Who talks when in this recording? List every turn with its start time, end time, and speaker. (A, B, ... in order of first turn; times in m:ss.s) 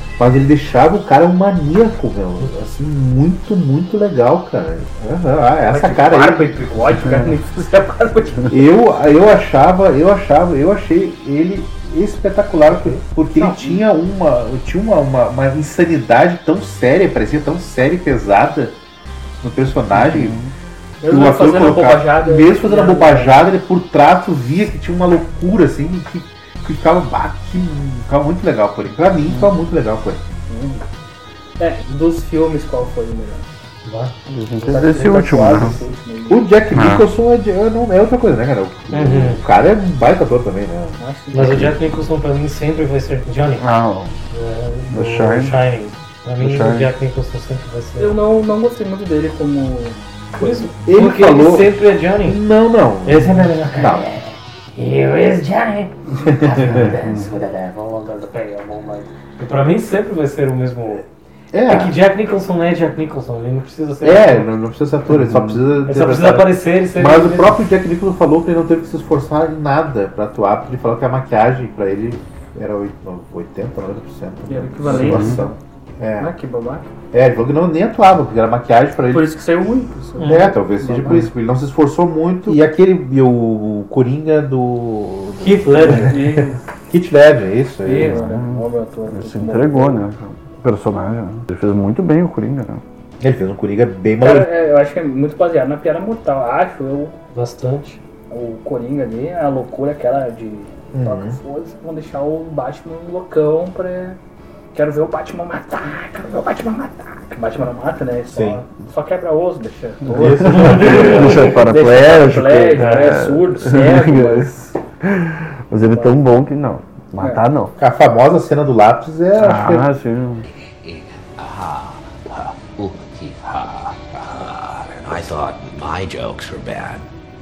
0:00.2-0:06.6 A
0:05.7-0:08.6 B
0:08.5-0:18.8 A
0:12.7-0:13.0 C
0:13.4-0:13.8 B
0:19.4-0:20.4 A
0:19.9-0:20.5 D
0:21.0-0:23.4 B
0:21.0-0:30.2 A
0:30.5-0:30.8 B
0:31.6-0:33.5 B
0:33.9-0:34.2 C
0:34.3-0:35.8 D
0:34.7-0:36.4 B
0:36.3-0:41.0 A
0:36.7-0:37.0 D
0:38.9-0:39.4 C
0:40.9-0:41.7 B
0:41.3-0:43.7 C
0:43.6-0:44.2 D
0:44.3-0:48.2 C
0:44.9-0:45.7 D
0:46.4-0:46.9 D
0:48.0-0:50.7 B
0:50.4-0:52.4 C
0:50.8-0:54.1 A
0:53.0-1:01.0 C
0:56.2-0:56.9 A
1:01.5-1:02.0 A
1:01.7-1:04.5 C
1:04.0-1:16.3 A
1:05.1-1:05.6 D
1:05.9-1:07.6 C
1:14.5-1:15.5 B
1:15.0-1:15.4 D
1:16.2-1:16.9 B
1:17.1-1:19.3 A
1:19.1-1:21.3 B
1:20.2-1:20.6 C
1:20.2-1:28.2 A
1:25.4-1:26.2 C
1:25.8-1:26.6 B
1:27.8-1:30.0 B
1:27.9-1:32.8 D
1:33.2-1:34.5 A
1:34.2-1:37.2 B
1:37.3-1:38.0 C
1:38.3-1:44.2 B
1:40.9-1:41.4 A
1:44.7-1:54.5 B
1:48.3-1:48.6 A
1:50.0-1:57.7 D
1:50.2-1:51.2 A
1:50.4-1:51.2 C
1:55.9-1:56.2 B
1:57.8-1:59.9 A
1:59.4-2:00.4 D
2:00.8-2:07.0 E